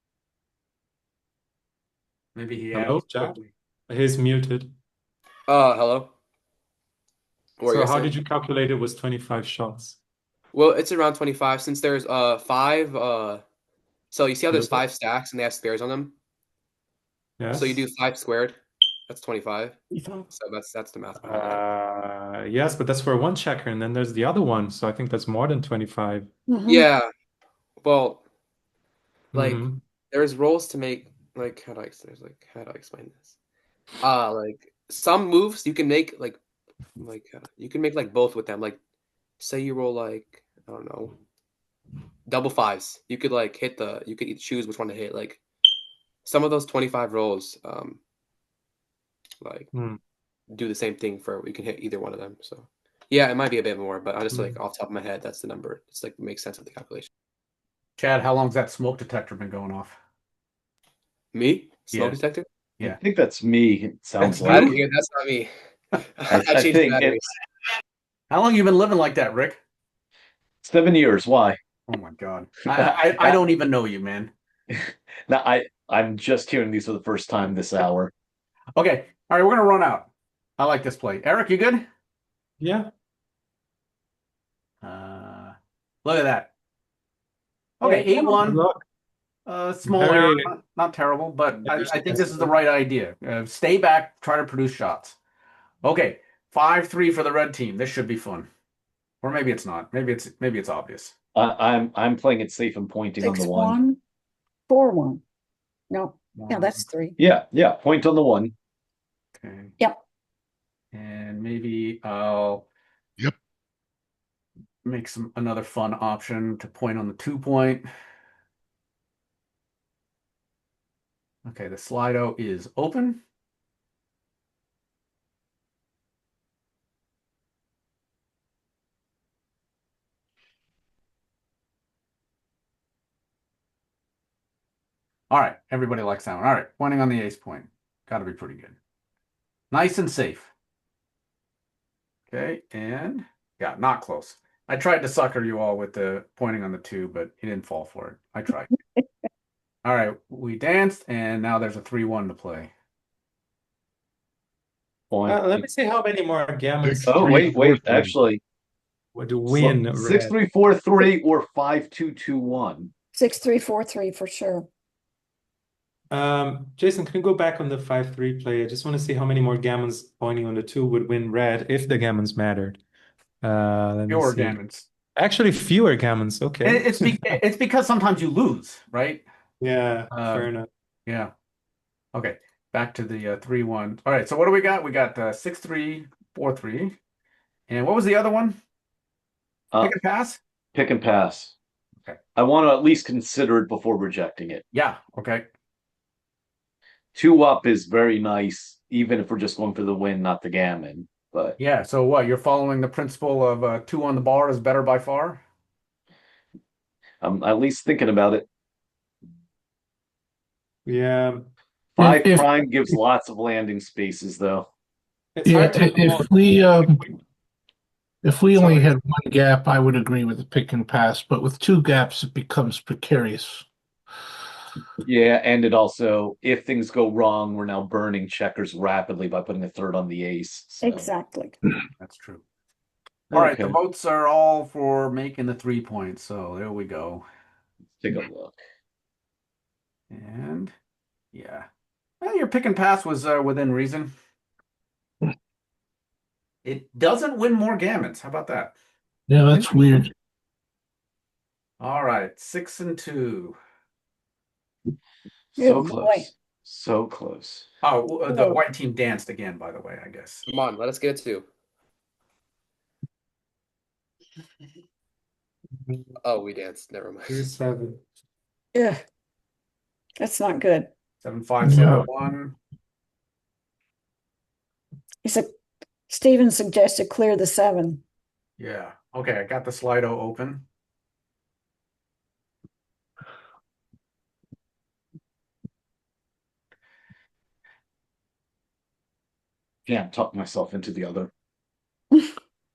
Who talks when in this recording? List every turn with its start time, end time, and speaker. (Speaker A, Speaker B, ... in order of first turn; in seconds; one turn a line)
Speaker A: 2.4-3.5
Speaker B: 2.7-3.4
Speaker B: 3.9-4.7
Speaker C: 5.5-6.1
Speaker C: 7.6-8.1
Speaker B: 7.7-10.0
Speaker C: 10.5-13.4
Speaker C: 14.1-16.1
Speaker B: 14.5-14.8
Speaker B: 17.4-17.8
Speaker C: 17.5-19.8
Speaker D: 19.9-20.3
Speaker C: 20.3-21.6
Speaker B: 21.2-26.3
Speaker D: 26.5-26.8
Speaker C: 26.7-27.1
Speaker C: 27.8-28.2
Speaker B: 29.3-29.8
Speaker C: 29.3-33.3
Speaker C: 34.0-36.4
Speaker C: 37.0-38.8
Speaker C: 39.4-41.2
Speaker C: 42.3-45.4
Speaker C: 46.2-48.0
Speaker C: 49.4-49.7
Speaker B: 49.7-50.0
Speaker C: 50.5-57.1
Speaker A: 58.0-60.0
Speaker C: 61.3-62.5
Speaker A: 61.9-62.2
Speaker E: 62.8-64.8
Speaker C: 64.2-67.3
Speaker A: 64.5-64.7
Speaker E: 66.3-67.2
Speaker A: 68.3-69.6
Speaker E: 70.6-71.6
Speaker A: 71.9-74.3
Speaker E: 72.7-73.4
Speaker E: 74.7-78.1
Speaker A: 78.8-81.8
Speaker B: 82.6-82.9
Speaker A: 84.8-86.5
Speaker A: 87.8-88.6
Speaker B: 87.8-88.8
Speaker A: 89.5-95.2
Speaker B: 89.9-90.5
Speaker B: 91.6-92.5
Speaker A: 95.8-98.5
Speaker A: 99.2-101.1
Speaker E: 101.3-103.8
Speaker D: 103.2-104.0
Speaker D: 104.7-105.2
Speaker D: 105.9-107.2
Speaker A: 106.3-106.8
Speaker E: 107.2-108.5
Speaker A: 109.4-109.8
Speaker A: 110.9-112.7
Speaker A: 114.8-117.9
Speaker A: 121.5-123.2
Speaker A: 135.3-138.8
Speaker A: 139.7-140.5
Speaker A: 142.3-148.7
Speaker A: 149.8-152.7
Speaker E: 155.1-155.7
Speaker B: 155.3-158.2
Speaker E: 157.1-158.4
Speaker B: 159.2-160.4
Speaker E: 159.5-162.9
Speaker D: 163.1-164.7
Speaker B: 166.1-172.8
Speaker B: 173.4-174.6
Speaker A: 174.1-174.9
Speaker B: 175.2-177.4
Speaker A: 176.6-179.3
Speaker B: 179.6-180.7
Speaker A: 180.1-180.5
Speaker A: 181.1-181.3
Speaker A: 182.1-187.0
Speaker A: 187.7-188.6
Speaker A: 189.8-190.4
Speaker E: 190.7-191.5
Speaker E: 192.4-194.6
Speaker A: 194.7-195.5
Speaker E: 197.2-201.6
Speaker A: 201.6-205.4
Speaker E: 207.2-208.5
Speaker B: 210.9-211.4
Speaker E: 212.0-214.7
Speaker F: 212.0-212.5
Speaker B: 215.3-217.1
Speaker F: 215.4-217.0
Speaker A: 215.6-215.8
Speaker F: 218.2-223.7
Speaker B: 218.6-218.9
Speaker E: 225.0-231.1
Speaker D: 230.8-231.5
Speaker A: 232.0-232.4
Speaker E: 233.3-233.8
Speaker A: 233.3-237.2
Speaker E: 238.0-238.6
Speaker A: 240.1-240.7
Speaker A: 241.3-241.7
Speaker A: 242.2-244.1
Speaker A: 246.6-248.7
Speaker F: 249.3-250.1
Speaker A: 251.8-253.6
Speaker E: 255.6-257.7
Speaker D: 255.6-256.3
Speaker A: 257.8-260.5
Speaker D: 258.3-258.6
Speaker C: 260.5-261.5
Speaker C: 266.2-267.5
Speaker B: 267.3-268.0
Speaker D: 268.8-269.0
Speaker D: 270.2-270.9
Speaker A: 271.2-272.6
Speaker F: 271.6-272.1
Speaker D: 275.2-275.5
Speaker D: 276.1-278.0
Speaker A: 278.6-280.6
Speaker E: 289.9-291.3